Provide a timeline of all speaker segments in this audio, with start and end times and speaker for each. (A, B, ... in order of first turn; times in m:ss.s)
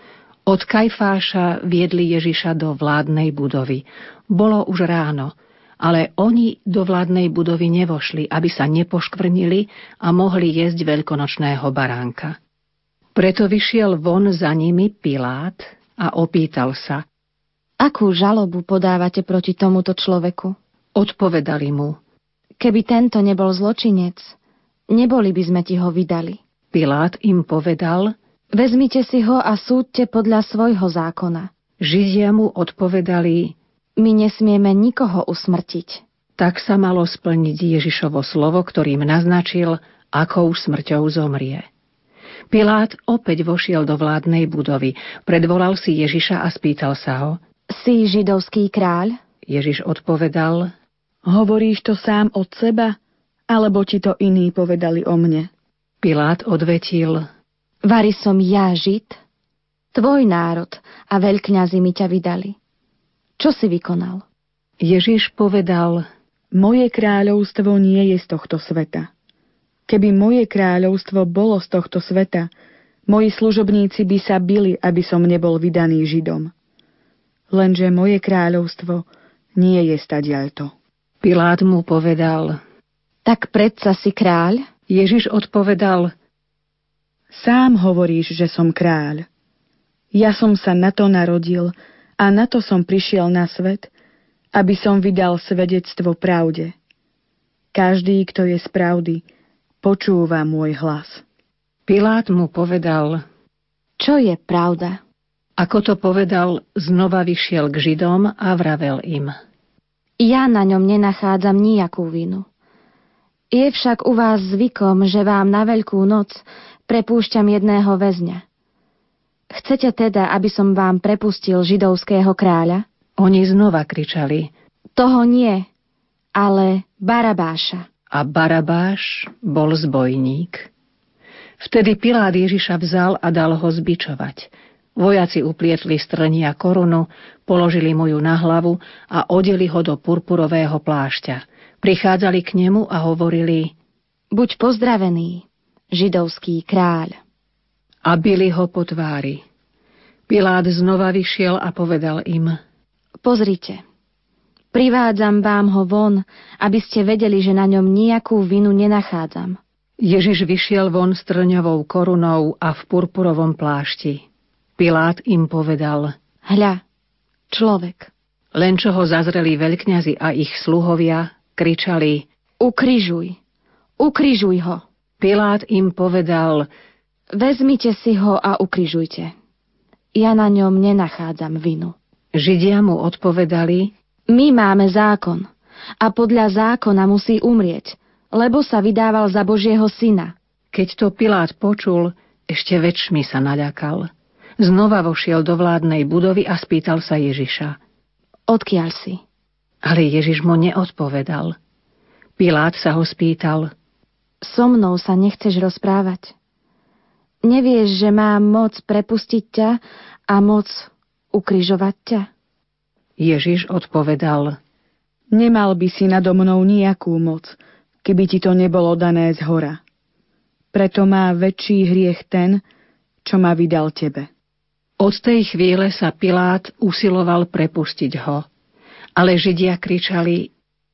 0:00.5-0:12.4 A
0:13.2-0:17.0 A
0:17.8-0:20.6 B
0:21.0-0:22.0 A
0:22.6-0:24.4 B
0:24.9-0:26.4 B
0:26.7-0:28.1 A
0:28.5-0:31.5 B
0:31.8-0:33.6 A
0:34.0-0:36.0 B
0:36.4-0:41.7 A
0:42.5-0:47.4 A
0:47.7-0:49.2 B
0:49.5-0:50.7 A
0:51.3-0:53.0 C
0:53.5-0:55.5 C
0:56.0-0:57.3 A
0:57.8-0:59.2 B
0:59.9-1:02.6 B
1:03.4-1:04.2 B
1:04.8-1:06.1 A
1:06.5-1:09.1 C
1:09.9-1:12.5 C
1:13.1-1:16.5 C
1:17.5-1:20.7 C
1:21.2-1:22.6 A
1:23.3-1:24.7 B
1:24.9-1:26.1 A
1:27.3-1:29.3 C
1:30.1-1:33.9 C
1:34.6-1:36.8 C
1:37.7-1:39.2 C
1:39.8-1:41.2 C
1:41.9-1:43.2 A
1:44.0-1:45.0 B
1:45.6-1:49.4 A
1:50.2-1:52.5 B
1:53.5-1:58.4 B
1:59.5-2:02.8 B
2:03.2-2:04.5 A
2:05.0-2:05.7 B
2:06.4-2:07.9 B
2:08.1-2:10.7 A
2:11.6-2:23.7 A
2:24.3-2:27.2 B
2:28.0-2:29.4 A
2:30.3-2:32.6 A
2:33.2-2:33.8 B
2:34.7-2:39.6 B
2:40.0-2:44.2 A
2:44.8-2:46.1 A
2:46.4-2:46.8 B
2:47.5-2:48.1 B
2:48.6-2:52.3 A
2:52.6-2:53.4 B
2:54.0-2:54.8 B
2:55.2-2:56.7 A
2:57.4-2:59.3 B
3:00.2-3:02.0 B
3:02.4-3:03.9 A
3:04.3-3:05.5 B
3:06.0-3:10.3 B
3:10.7-3:14.1 A
3:14.6-3:17.8 A
3:18.5-3:19.2 B
3:19.8-3:21.6 A
3:22.4-3:23.7 A
3:24.4-3:26.3 B
3:27.4-3:32.3 B
3:33.2-3:34.6 A
3:35.3-3:39.8 C
3:40.7-3:42.6 C
3:43.2-3:44.3 C
3:45.0-3:48.5 A
3:49.2-3:50.5 A